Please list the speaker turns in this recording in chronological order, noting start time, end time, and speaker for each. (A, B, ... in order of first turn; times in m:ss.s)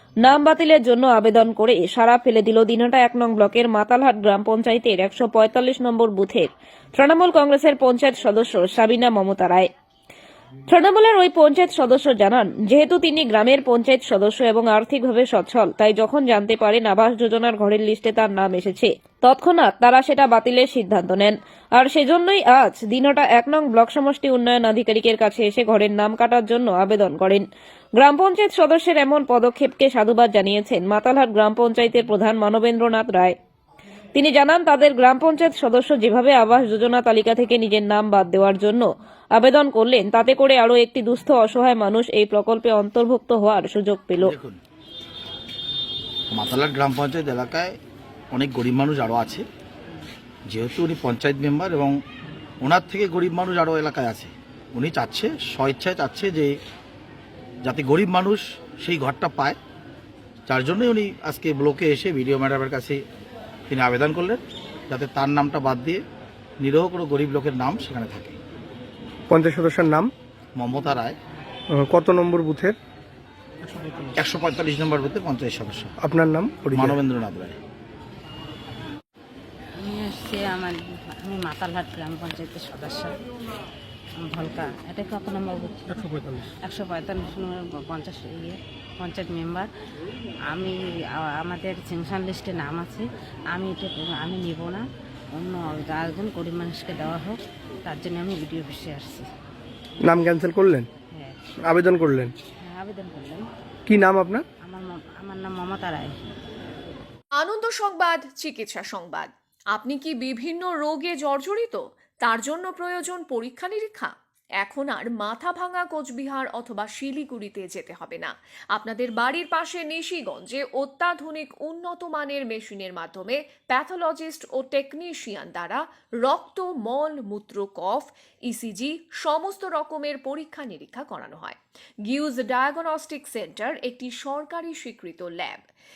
0:00.2-0:09.7 A
0:10.7-0:27.4 A
0:28.0-0:33.3 A
0:34.1-0:44.3 A
0:44.2-0:44.6 B
0:46.3-0:47.8 B
0:48.3-0:49.4 B
0:50.5-0:52.0 B
0:52.6-0:56.6 B
0:57.6-0:59.6 B
1:00.5-1:03.0 B
1:03.7-1:06.0 B
1:06.6-1:08.4 B
1:09.3-1:10.1 C
1:10.6-1:11.2 B
1:11.7-1:12.8 C
1:14.2-1:15.9 B
1:16.0-1:17.0 C
1:16.7-1:17.6 B
1:19.8-1:23.1 D
1:24.2-1:26.0 D
1:26.0-1:26.5 C
1:26.6-1:29.7 D
1:30.5-1:34.8 D
1:35.4-1:39.2 D
1:40.0-1:40.9 C
1:41.6-1:42.3 C
1:42.6-1:43.4 D
1:43.9-1:44.4 C
1:44.6-1:46.1 D
1:47.4-2:15.6 E